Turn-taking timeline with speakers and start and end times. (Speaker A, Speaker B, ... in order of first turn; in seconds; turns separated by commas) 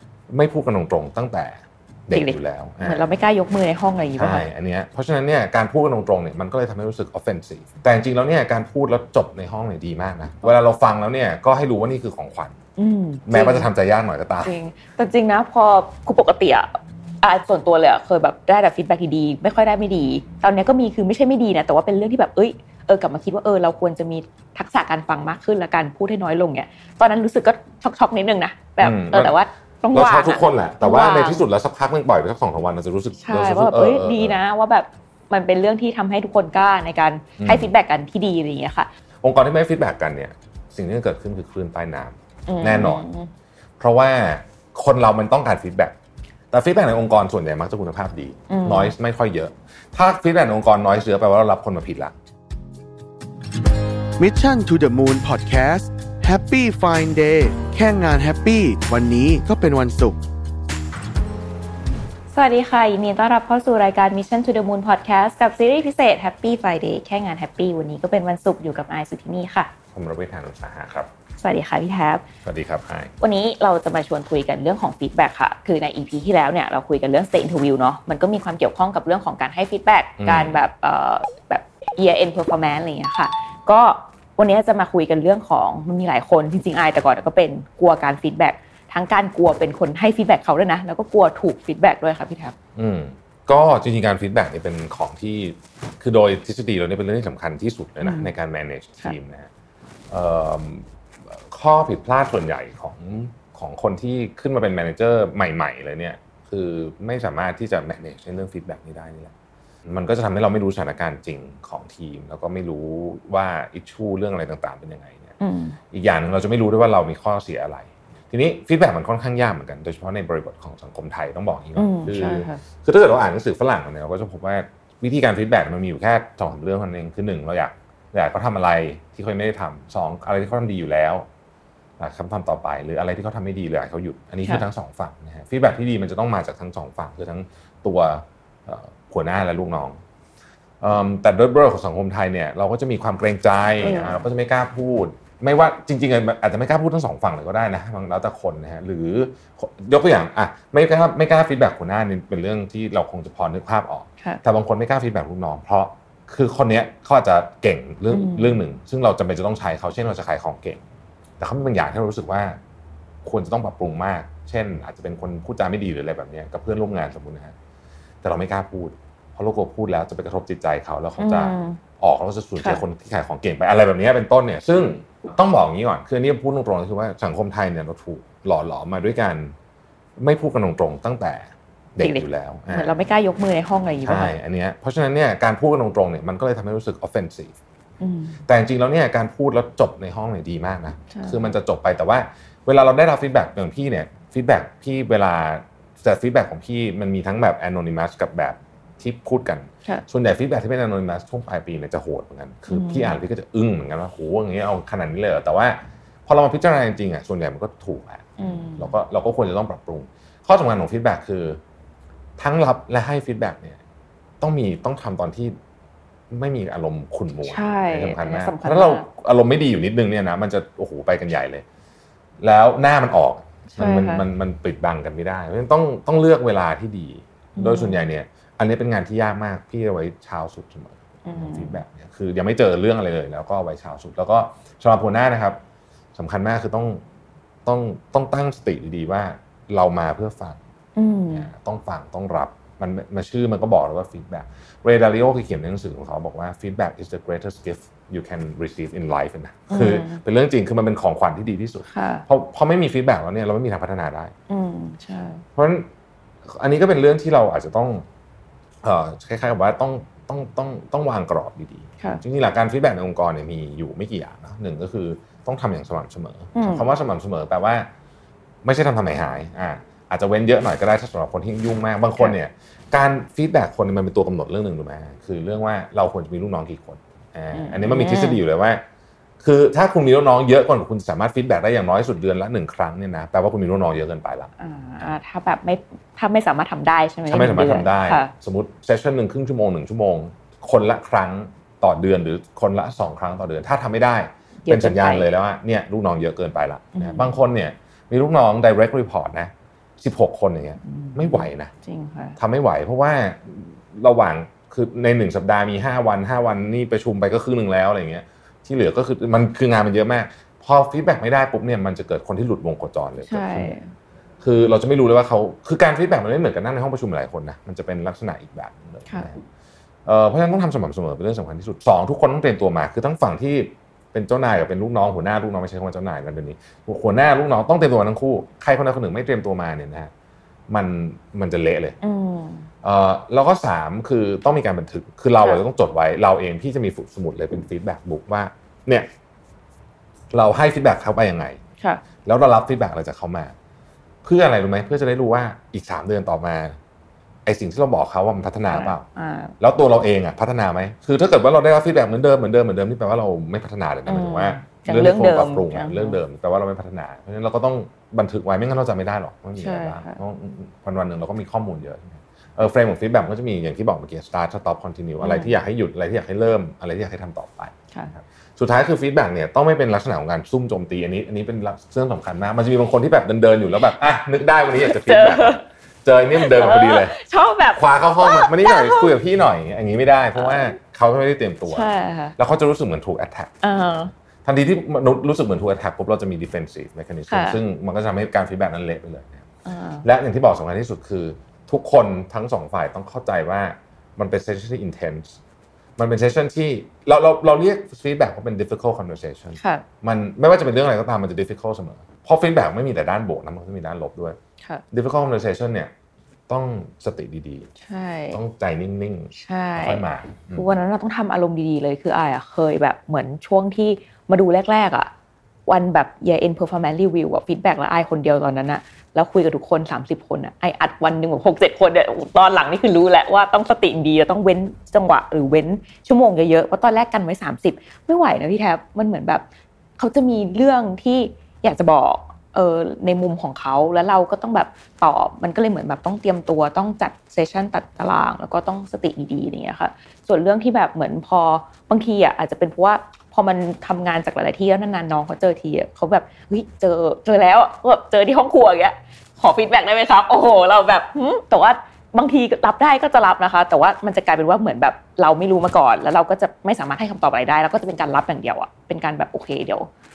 Speaker A: 0.3-3.1, Speaker B: 2.1-4.5, Speaker A: 4.2-12.6, Speaker B: 12.8-13.7, Speaker A: 13.3-14.6, Speaker B: 14.4-31.4, Speaker A: 28.8-29.4, Speaker A: 29.9-34.4, Speaker B: 33.2-38.9, Speaker A: 37.4-37.7, Speaker A: 39.2-43.0, Speaker B: 42.5-43.3, Speaker A: 43.8-46.0, Speaker A: 46.5-52.1, Speaker B: 48.5-48.9, Speaker C: 54.2-60.2, Speaker B: 62.3-69.7, Speaker A: 69.9-71.1, Speaker B: 71.4-72.2, Speaker A: 72.4-73.1, Speaker B: 73.2-92.5, Speaker A: 80.2-80.6, Speaker A: 92.8-99.5, Speaker B: 98.0-98.3, Speaker A: 100.1-109.3, Speaker A: 109.9-115.3, Speaker B: 115.4-115.8, Speaker A: 115.9-131.3, Speaker B: 121.8-122.6, Speaker A: 132.0-140.0, Speaker A: 140.8-160.8, Speaker B: 143.8-144.2, Speaker B: 158.1-158.6, Speaker A: 161.4-162.6, Speaker A: 163.2-167.6, Speaker A: 168.2-179.5, Speaker B: 171.2-171.8, Speaker A: 180.2-183.0, Speaker B: 182.0-184.3, Speaker A: 184.0-187.5, Speaker B: 188.0-188.4, Speaker A: 188.5-211.6, Speaker B: 191.1-191.5, Speaker B: 202.7-203.2, Speaker B: 208.4-208.9, Speaker A: 212.4-213.8, Speaker A: 214.4-215.6, Speaker A: 216.3-221.7, Speaker B: 217.4-219.1, Speaker A: 222.4-235.6, Speaker B: 223.7-224.3, Speaker B: 227.6-228.0, Speaker B: 231.2-231.8, Speaker A: 236.2-237.0, Speaker A: 237.7-240.6, Speaker B: 241.0-241.5, Speaker A: 241.3-254.3, Speaker B: 249.7-250.2, Speaker B: 251.9-252.3, Speaker B: 254.5-255.4, Speaker A: 255.6-255.9, Speaker A: 256.4-258.1, Speaker A: 258.8-267.9, Speaker B: 266.5-266.9, Speaker A: 268.6-278.8, Speaker B: 277.5-278.4, Speaker A: 279.4-284.5, Speaker B: 284.6-288.3, Speaker A: 287.3-301.7, Speaker B: 294.6-295.3, Speaker B: 297.0-297.4, Speaker B: 300.8-302.4, Speaker A: 302.4-313.8, Speaker B: 313.2-313.9, Speaker A: 314.4-319.4, Speaker A: 320.1-330.1, Speaker A: 330.7-332.0, Speaker B: 332.0-332.7, Speaker A: 332.8-339.1, Speaker A: 340.3-341.6, Speaker A: 342.2-343.5, Speaker A: 344.2-346.8, Speaker A: 347.5-349.1, Speaker B: 348.7-349.6, Speaker A: 349.6-377.2, Speaker B: 354.1-356.2, Speaker B: 359.6-360.2, Speaker B: 365.2-365.5, Speaker B: 374.7-375.6, Speaker B: 376.4-379.1, Speaker A: 377.8-383.5, Speaker B: 380.4-380.7, Speaker B: 381.7-382.4, Speaker B: 383.6-384.1, Speaker A: 384.4-389.4, Speaker B: 387.3-387.6, Speaker B: 389.6-390.1, Speaker A: 390.0-395.4, Speaker A: 396.0-404.4, Speaker B: 399.6-399.9, Speaker A: 404.9-405.9, Speaker A: 406.5-407.7, Speaker B: 407.8-408.4, Speaker A: 408.3-410.7, Speaker B: 409.3-415.1, Speaker B: 415.7-429.4, Speaker B: 430.0-459.9